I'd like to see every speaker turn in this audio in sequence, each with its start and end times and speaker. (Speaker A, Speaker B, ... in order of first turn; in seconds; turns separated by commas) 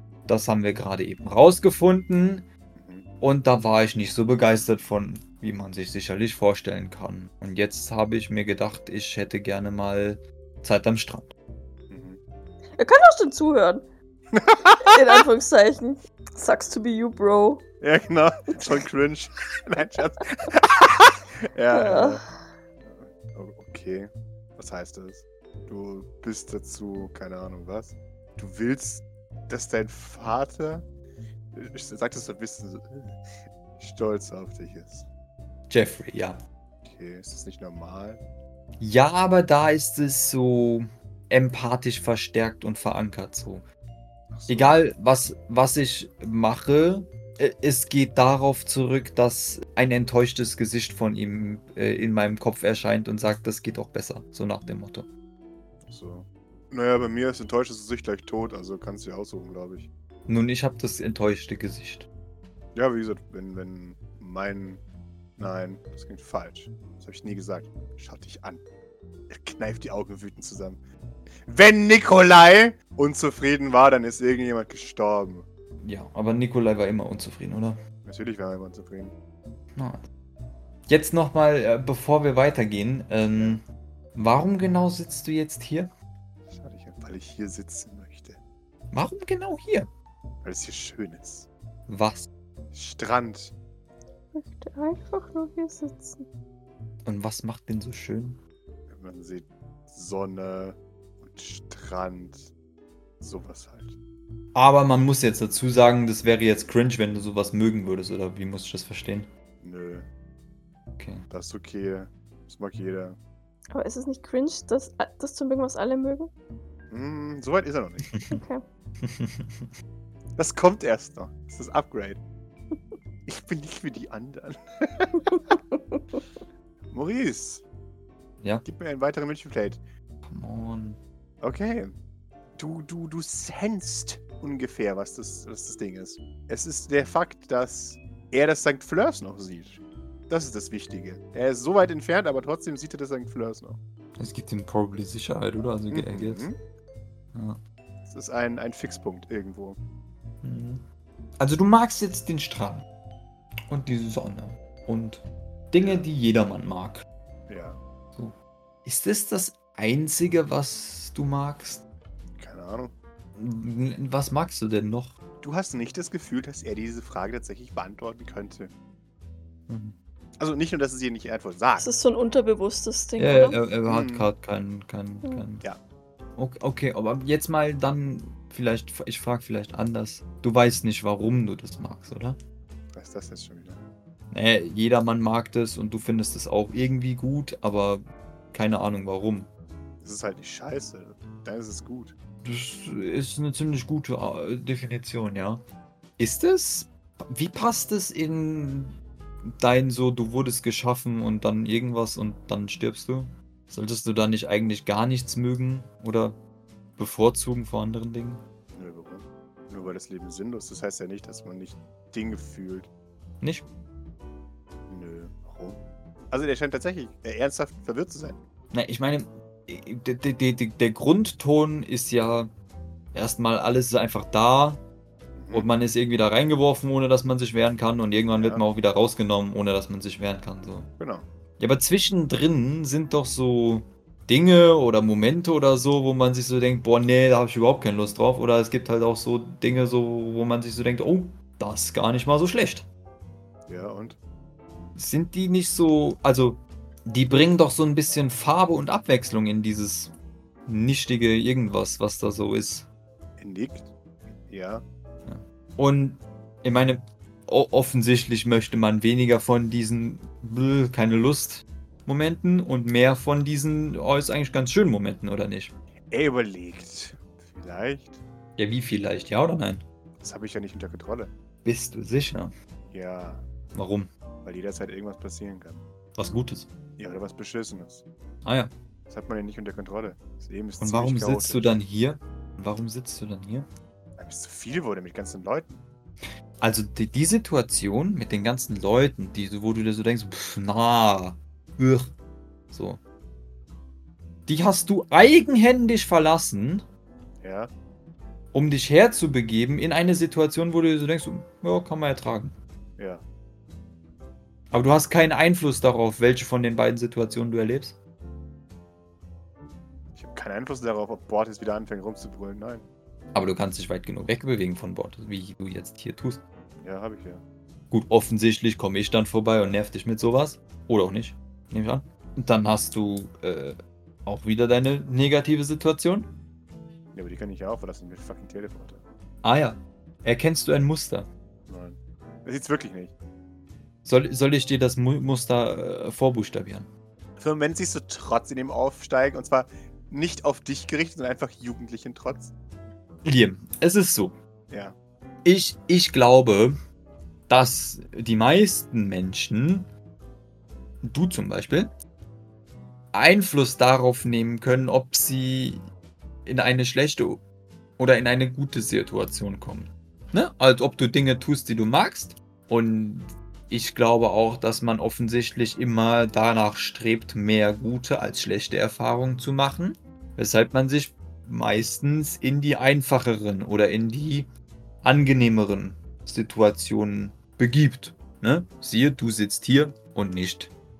Speaker A: 0.3-2.5, Speaker B: 2.7-3.1, Speaker A: 3.2-11.3, Speaker B: 11.9-12.2, Speaker C: 12.8-13.9, Speaker B: 14.3-15.0, Speaker C: 14.8-17.6, Speaker B: 17.8-22.2, Speaker C: 21.7-22.3, Speaker B: 22.9-30.9, Speaker B: 31.5-35.1, Speaker A: 35.7-36.4, Speaker B: 36.8-38.2, Speaker A: 38.8-43.6, Speaker B: 44.3-44.8, Speaker A: 44.5-55.1, Speaker B: 55.9-59.9, Speaker A: 60.3-62.1, Speaker B: 62.8-64.8, Speaker B: 65.4-68.6, Speaker B: 69.3-70.8, Speaker B: 71.5-75.5, Speaker A: 75.8-77.8, Speaker B: 78.0-79.1, Speaker A: 79.8-80.0, Speaker A: 80.9-83.6, Speaker B: 83.3-83.6, Speaker A: 84.2-85.9, Speaker B: 86.5-88.4, Speaker A: 88.9-89.9, Speaker B: 90.4-91.5, Speaker A: 91.9-92.3, Speaker B: 92.7-93.5, Speaker C: 94.3-96.2, Speaker A: 97.0-98.4, Speaker B: 98.9-102.5, Speaker B: 103.2-103.9, Speaker A: 104.5-109.3, Speaker B: 109.6-110.1, Speaker A: 111.0-111.3, Speaker B: 111.3-113.2, Speaker C: 113.7-116.3, Speaker B: 116.9-118.1, Speaker A: 118.1-118.4, Speaker C: 118.3-118.6, Speaker A: 119.0-119.7, Speaker B: 120.4-122.2, Speaker B: 123.3-125.4, Speaker B: 126.9-127.7, Speaker B: 128.6-129.8, Speaker A: 130.2-131.0, Speaker B: 131.4-131.9, Speaker B: 132.6-143.8, Speaker A: 144.2-146.5, Speaker B: 145.9-146.6, Speaker A: 147.3-147.6, Speaker B: 148.1-149.8, Speaker A: 150.4-150.8, Speaker A: 151.4-152.8, Speaker A: 153.7-157.1, Speaker B: 155.8-156.1, Speaker B: 157.5-157.8, Speaker A: 158.2-161.8, Speaker B: 162.4-162.9, Speaker A: 163.4-165.1, Speaker B: 165.4-168.7, Speaker A: 169.7-170.0, Speaker B: 170.4-171.9, Speaker C: 171.8-173.6, Speaker A: 173.2-175.6, Speaker B: 173.9-174.3, Speaker A: 176.4-182.4, Speaker B: 182.9-183.9, Speaker A: 184.3-189.5, Speaker B: 190.0-192.2, Speaker A: 192.4-195.6, Speaker A: 196.2-199.0, Speaker A: 199.6-206.4, Speaker A: 207.0-208.4, Speaker B: 208.7-212.9, Speaker A: 213.4-213.7, Speaker B: 214.9-215.8, Speaker B: 216.3-218.4, Speaker A: 218.7-222.5, Speaker A: 223.1-224.8, Speaker B: 225.4-225.7, Speaker A: 225.5-230.9, Speaker B: 228.4-228.6, Speaker B: 231.0-231.3, Speaker A: 231.6-242.9, Speaker B: 243.7-244.2, Speaker A: 245.0-250.1, Speaker A: 250.7-252.9, Speaker B: 253.4-254.8, Speaker A: 255.3-265.7, Speaker B: 266.1-268.2, Speaker A: 268.6-269.8, Speaker B: 270.2-271.3, Speaker A: 271.6-272.5, Speaker B: 272.9-273.4, Speaker A: 273.8-274.1, Speaker B: 274.4-275.9, Speaker A: 276.2-276.7, Speaker B: 277.0-278.0, Speaker A: 278.4-278.7, Speaker B: 279.1-281.8, Speaker A: 280.8-283.7, Speaker B: 284.2-285.8, Speaker A: 286.6-292.1, Speaker A: 292.7-293.0, Speaker A: 294.5-296.9, Speaker B: 297.4-297.7, Speaker A: 298.5-302.5, Speaker B: 303.0-303.2, Speaker A: 304.7-308.0, Speaker B: 310.1-312.9, Speaker A: 313.3-316.4, Speaker B: 316.8-317.4, Speaker A: 317.9-326.3, Speaker B: 327.1-329.0, Speaker A: 329.4-331.3, Speaker B: 331.7-333.1, Speaker A: 334.1-336.9, Speaker B: 337.4-342.5, Speaker A: 343.2-344.3, Speaker B: 344.7-345.0, Speaker A: 345.4-346.8, Speaker A: 347.5-349.9, Speaker A: 351.0-351.9, Speaker A: 353.1-355.8, Speaker A: 356.5-357.4, Speaker A: 358.0-374.5, Speaker A: 375.0-380.7